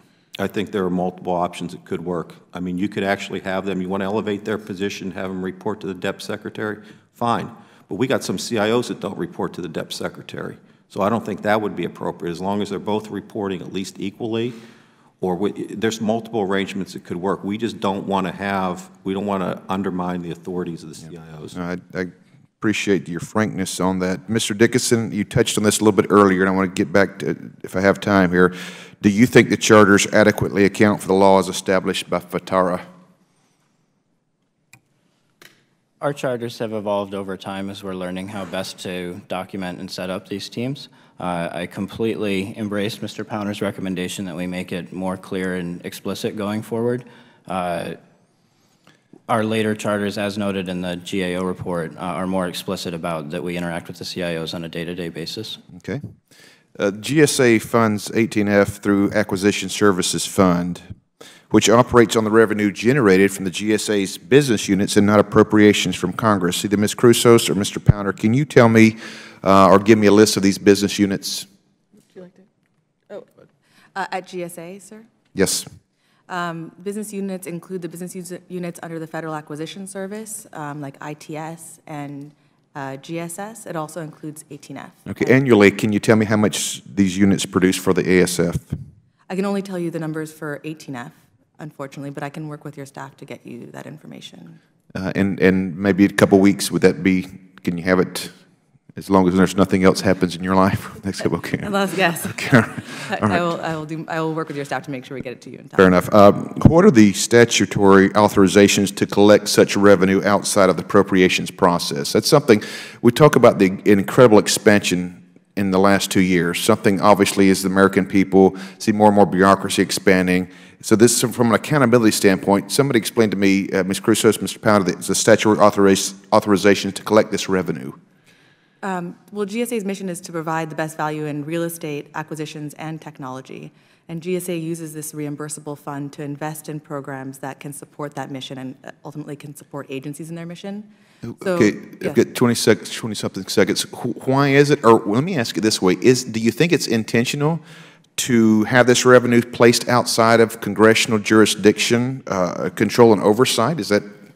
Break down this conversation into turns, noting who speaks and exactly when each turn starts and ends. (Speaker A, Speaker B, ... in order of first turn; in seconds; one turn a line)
Speaker A: 0.4-14.6
Speaker A: 15.2-21.6
Speaker B: 21.5-32.9
Speaker C: 36.0-48.0
Speaker C: 49.3-55.6
Speaker B: 55.7-56.1
Speaker B: 56.7-61.0
Speaker B: 61.5-71.5
Speaker D: 72.1-72.4
Speaker D: 74.0-75.1
Speaker B: 75.3-75.7
Speaker D: 76.3-85.2
Speaker B: 85.0-88.8
Speaker D: 89.3-94.6
Speaker B: 94.9-98.4
Speaker B: 98.9-103.5
Speaker D: 101.6-106.0
Speaker B: 105.8-128.0
Speaker D: 128.8-140.9
Speaker B: 141.2-147.6
Speaker D: 141.4-142.2
Speaker B: 148.2-154.1